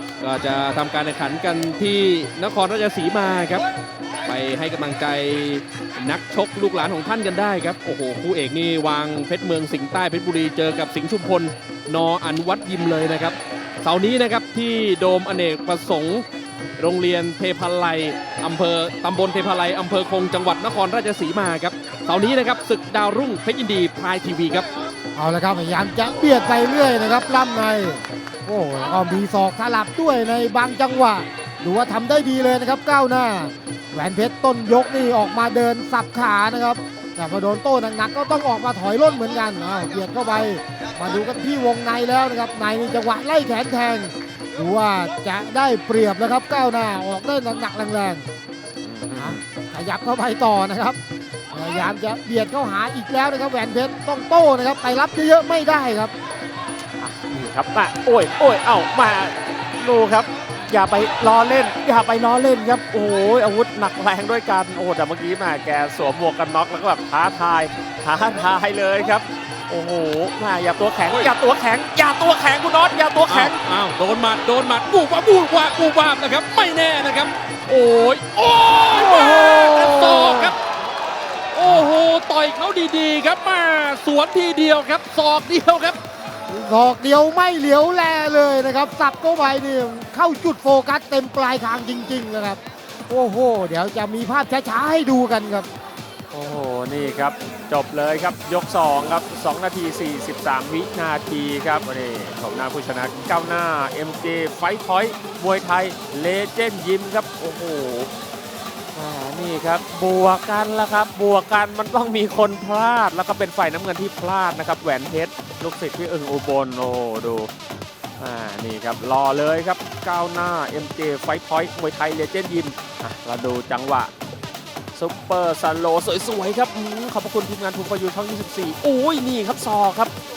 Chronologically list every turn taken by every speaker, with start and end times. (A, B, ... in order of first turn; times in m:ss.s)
0:00.2-0:03.6 A
0:04.2-0:16.2 A
0:16.8-0:24.7 A
0:25.2-0:48.3 B
0:48.8-0:49.4 C
0:49.2-0:51.0 B
0:51.5-0:56.1 B
0:57.0-1:13.6 C
1:13.3-1:20.6 A
1:18.9-1:20.6 B
1:21.5-1:26.0 A
1:26.5-1:35.7 B
1:36.3-1:48.1 C
1:48.9-1:57.5 C
1:58.2-2:04.1 C
2:05.0-2:10.1 C